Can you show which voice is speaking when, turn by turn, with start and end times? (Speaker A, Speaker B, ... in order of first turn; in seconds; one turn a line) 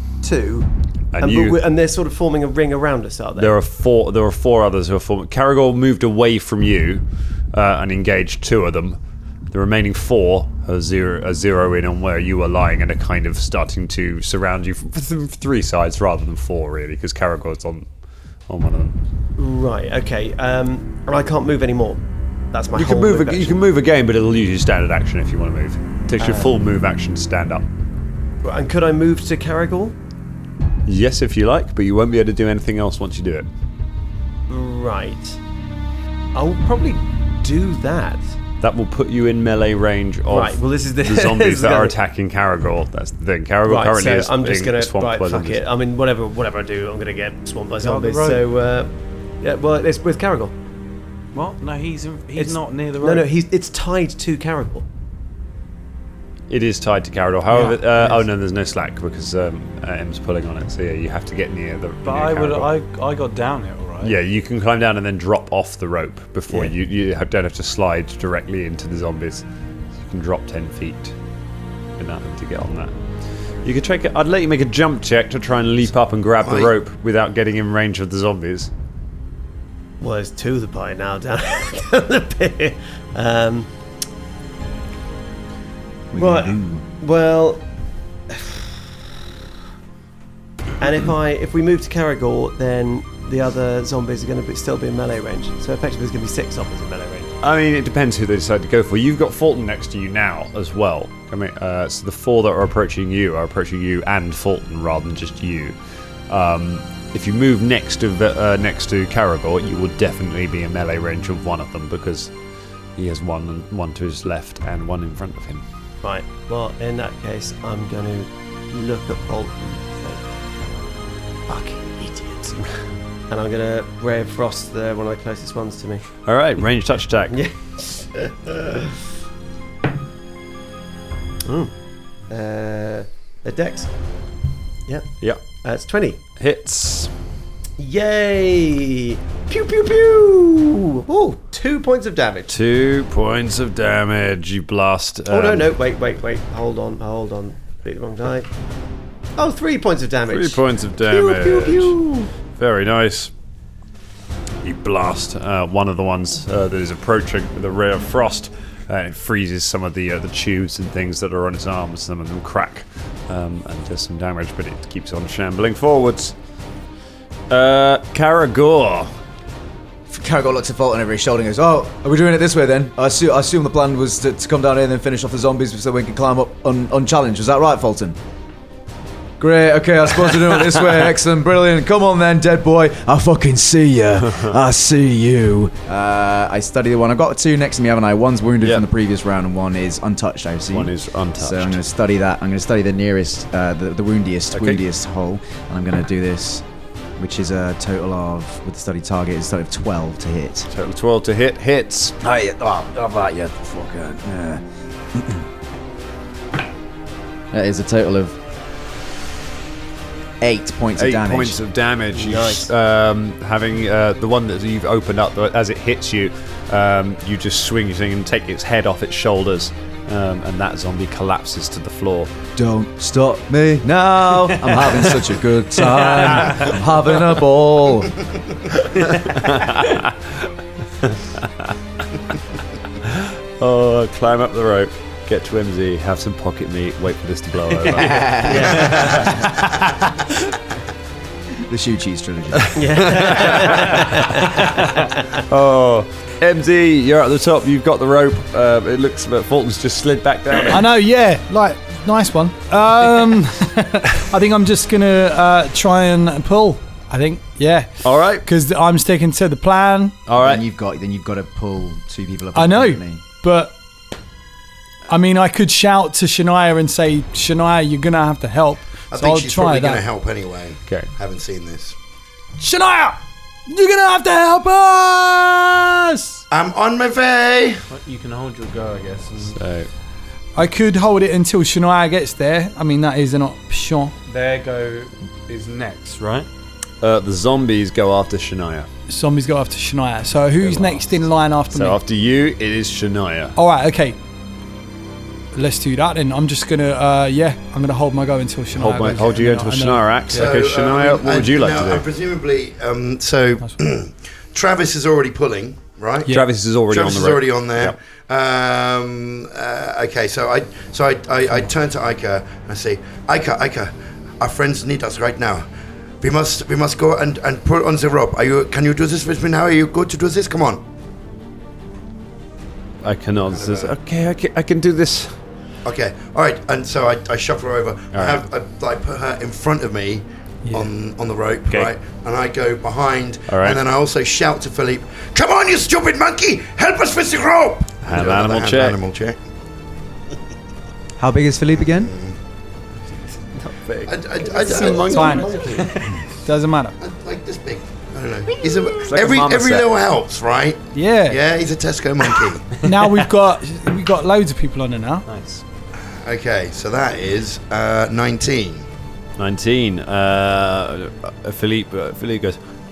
Speaker A: 0.2-3.6
Speaker B: 1.1-1.6
Speaker B: 3.4-9.0
Speaker B: 9.5-17.9
Speaker B: 18.5-18.9
Speaker A: 19.4-23.6
Speaker B: 22.8-27.7
Speaker A: 26.2-26.5
Speaker A: 28.4-29.9
Speaker B: 30.9-33.5
Speaker A: 34.5-35.4
Speaker A: 36.3-38.3
Speaker B: 38.6-45.6
Speaker A: 40.3-42.0
Speaker A: 43.6-50.5
Speaker C: 47.8-48.4
Speaker C: 51.3-53.3
Speaker A: 52.4-54.8
Speaker B: 56.5-62.7
Speaker A: 57.5-58.3
Speaker C: 62.0-64.2
Speaker B: 64.0-69.4
Speaker B: 70.0-71.1
Speaker B: 72.0-72.9
Speaker B: 73.6-78.7
Speaker D: 76.4-76.7
Speaker A: 80.0-83.7
Speaker E: 86.1-86.8
Speaker A: 86.1-87.6
Speaker A: 88.3-88.6
Speaker A: 90.8-97.3
Speaker B: 97.4-105.8
Speaker B: 106.3-112.3
Speaker B: 113.0-115.6
Speaker A: 116.0-120.3
Speaker A: 121.5-122.6
Speaker A: 123.3-126.0
Speaker B: 126.2-127.4
Speaker A: 127.3-128.9
Speaker A: 131.4-131.7
Speaker A: 132.3-133.9
Speaker A: 134.9-136.2
Speaker B: 136.4-137.1
Speaker A: 137.8-142.5
Speaker B: 142.5-145.7
Speaker A: 145.3-148.5
Speaker A: 149.4-152.3
Speaker B: 150.3-152.0
Speaker B: 152.6-153.3
Speaker B: 154.6-166.3
Speaker B: 167.5-169.1
Speaker E: 170.1-178.2
Speaker E: 179.4-196.6
Speaker B: 188.6-188.8
Speaker B: 190.7-191.8
Speaker B: 194.5-194.8
Speaker E: 197.2-200.7
Speaker B: 200.7-202.2
Speaker E: 202.2-205.5
Speaker E: 207.5-208.4
Speaker E: 210.4-211.6
Speaker B: 211.0-222.3
Speaker A: 212.1-212.7
Speaker E: 222.6-228.1
Speaker B: 229.0-231.7
Speaker B: 233.0-239.4
Speaker E: 237.9-239.7
Speaker A: 238.0-239.4
Speaker E: 241.7-242.8
Speaker A: 242.7-245.4
Speaker B: 243.0-244.0
Speaker B: 245.4-250.8
Speaker F: 250.7-260.2
Speaker B: 258.0-258.4
Speaker B: 260.2-260.6
Speaker E: 260.4-263.2
Speaker F: 262.5-263.8
Speaker F: 265.1-270.0
Speaker D: 269.1-271.9
Speaker F: 272.6-276.4
Speaker D: 276.5-277.8
Speaker C: 277.9-279.6
Speaker B: 279.6-279.9
Speaker F: 280.5-284.1
Speaker C: 284.3-286.5
Speaker B: 287.0-288.9
Speaker F: 289.1-292.0
Speaker B: 290.6-293.6
Speaker F: 293.6-294.2
Speaker F: 295.5-300.4
Speaker B: 298.7-302.0
Speaker D: 300.3-306.3
Speaker B: 306.3-307.9
Speaker D: 306.9-315.6
Speaker D: 316.2-320.8
Speaker B: 323.0-325.4
Speaker D: 323.4-323.9
Speaker D: 325.8-339.4
Speaker B: 328.1-328.4
Speaker B: 333.5-333.8
Speaker B: 338.0-339.0
Speaker E: 341.2-342.1
Speaker D: 341.9-342.4
Speaker B: 343.5-345.8
Speaker D: 344.1-345.8
Speaker A: 344.4-346.1
Speaker F: 345.1-345.5
Speaker F: 346.3-347.0
Speaker D: 347.0-352.9
Speaker B: 349.0-349.9
Speaker F: 350.9-351.4
Speaker F: 352.8-355.3
Speaker C: 355.3-355.6
Speaker D: 356.2-358.9
Speaker B: 359.4-362.6